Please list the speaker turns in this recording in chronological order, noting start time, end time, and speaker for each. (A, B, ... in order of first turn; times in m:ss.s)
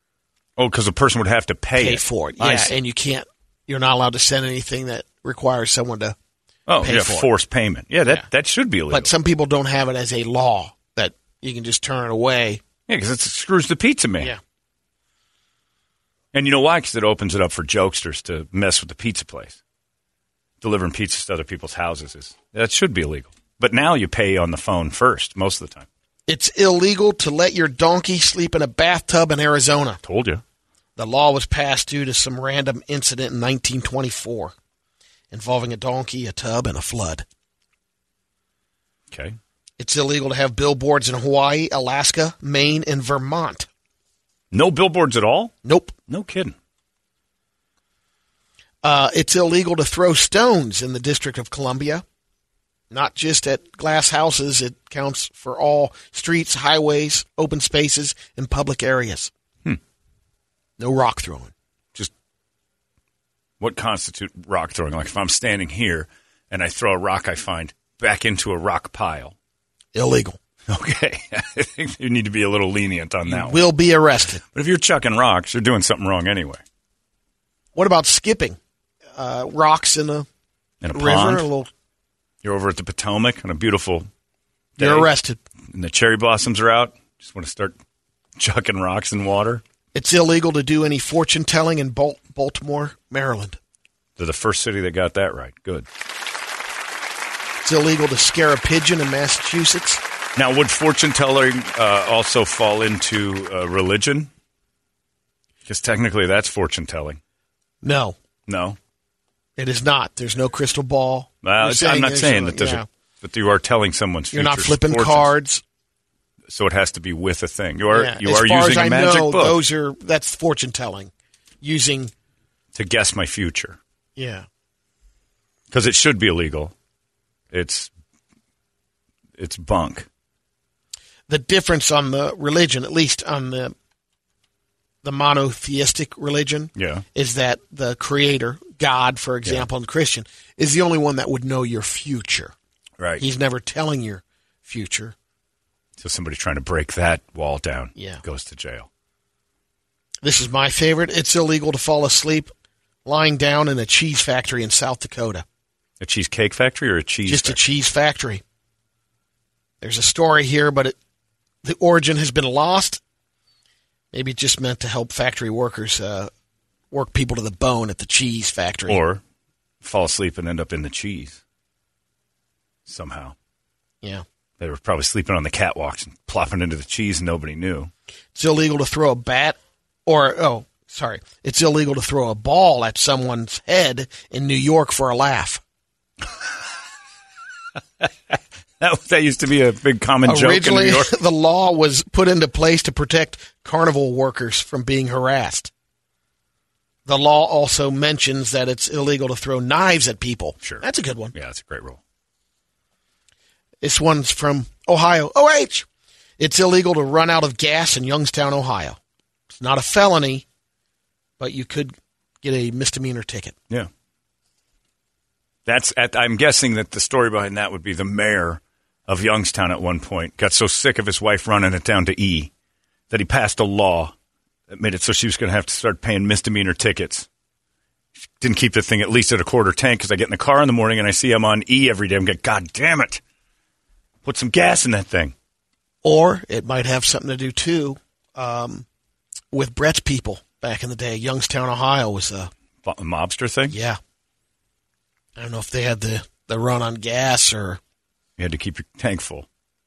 0:00.6-0:02.7 A
0:01.8-0:06.2 B
0:06.7-0:09.1 A
0:06.8-0:07.3 B
0:08.9-0:12.6 B
0:12.9-0:14.3 A
0:16.3-0:19.6 A
0:20.6-0:25.9 A
0:26.3-0:30.0 B
0:30.0-0:30.4 A
0:31.0-0:34.5 B
0:35.3-0:37.2 B
0:39.1-0:39.4 A
0:39.8-0:43.7 B
0:44.5-0:45.5 A
0:45.6-0:45.9 B
0:46.1-0:46.5 A
0:48.8-0:52.0 B
0:52.9-0:59.3 B
1:00.8-1:01.5 B
1:03.6-1:09.3 A
1:09.9-1:10.4 B
1:10.7-1:13.6 A
1:13.3-1:14.4 B
1:14.5-1:16.6 A
1:17.7-1:18.6 B
1:19.2-1:20.3 B
1:20.8-1:21.4 A
1:20.9-1:21.7 B
1:22.4-1:24.1 A
1:24.8-1:25.1 A
1:24.8-1:25.4 B
1:25.7-1:27.8 A
1:28.4-1:29.6 A
1:29.9-1:33.6 B
1:34.2-1:35.9 A
1:37.6-1:40.0 B
1:40.4-1:44.3 A
1:45.6-1:47.2 A
1:47.8-1:48.2 B
1:48.5-1:48.8 A
1:49.6-1:52.8 B
1:51.4-1:55.3 A
1:54.3-1:55.6 B
1:56.5-1:59.6 A
1:57.9-2:02.1 B
2:02.7-2:03.8 A
2:04.2-2:04.4 B
2:05.7-2:06.7 A
2:07.5-2:07.9 A
2:09.4-2:10.1 A
2:11.3-2:13.7 B
2:15.0-2:22.5 B
2:16.8-2:17.0 A
2:23.0-2:23.2 A
2:23.2-2:25.1 B
2:26.0-2:28.9 A
2:28.0-2:28.2 B
2:30.2-2:32.5 B
2:33.0-2:35.4 B
2:36.0-2:37.6 A
2:37.3-2:38.4 B
2:39.8-2:41.0 B
2:41.6-2:43.0 B
2:44.1-2:46.3 B
2:46.9-2:49.0 B
2:48.9-2:49.2 A
2:49.8-2:51.4 A
2:52.9-2:53.3 A
2:54.6-2:57.9 A
2:58.3-3:05.6 B
3:08.0-3:11.1 A
3:10.2-3:15.7 B
3:17.0-3:21.3 B
3:20.6-3:22.0 A
3:23.8-3:25.8 B
3:26.4-3:29.0 B
3:29.5-3:30.4 B
3:31.4-3:33.6 B
3:35.6-3:42.5 A
3:43.1-3:44.1 A
3:44.7-3:47.3 A
3:48.4-3:53.2 A
3:54.2-3:55.3 A
3:56.0-3:58.8 B
3:59.5-4:02.5 B
4:02.8-4:03.8 A
4:03.7-4:04.0 B
4:05.4-4:07.8 B
4:08.4-4:09.5 A